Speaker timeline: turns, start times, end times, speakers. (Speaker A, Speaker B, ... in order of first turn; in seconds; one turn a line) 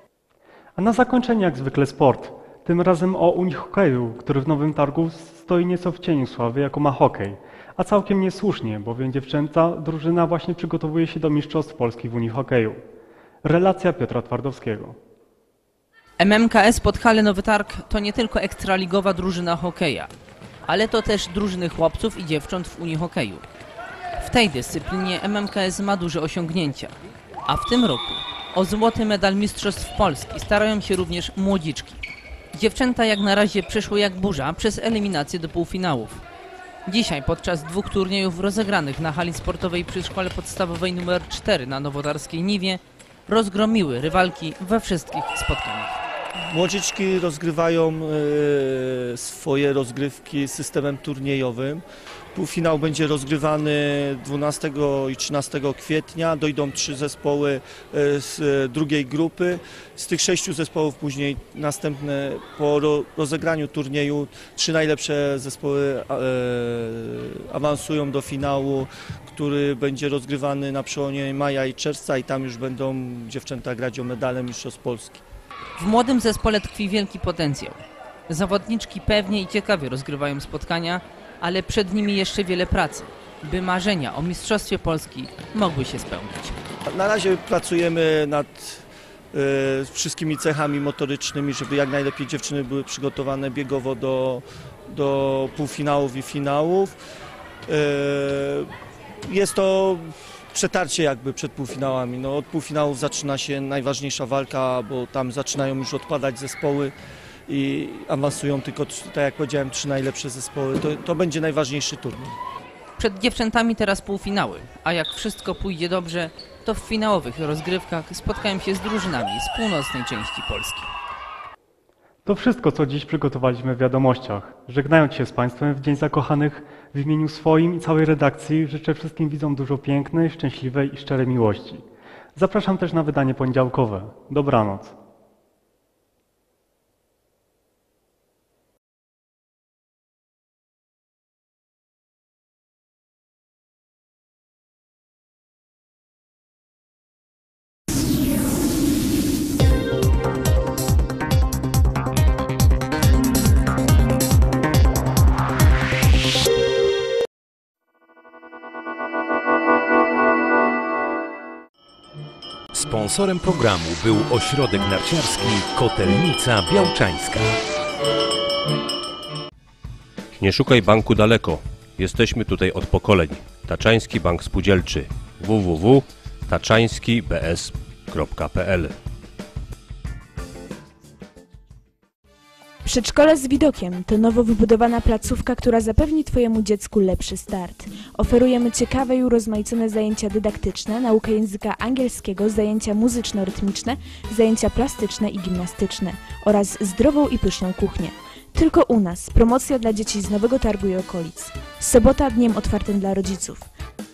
Speaker A: 0.8-12.8
Speaker A: 13.4-15.0
Speaker B: 16.2-20.1
Speaker B: 20.7-23.4
Speaker B: 24.2-36.2
Speaker B: 36.8-46.0
Speaker C: 46.6-51.8
Speaker C: 52.3-75.2
Speaker B: 75.8-86.6
Speaker C: 86.9-88.6
Speaker C: 89.3-94.4
Speaker C: 95.0-96.9
Speaker C: 97.7-98.6
Speaker C: 99.3-100.0
Speaker C: 100.5-106.9
Speaker C: 107.5-112.3
Speaker B: 113.0-120.9
Speaker A: 122.2-131.8
Speaker A: 132.3-134.9
Speaker D: 162.7-167.6
Speaker E: 170.4-178.9
Speaker F: 182.8-203.7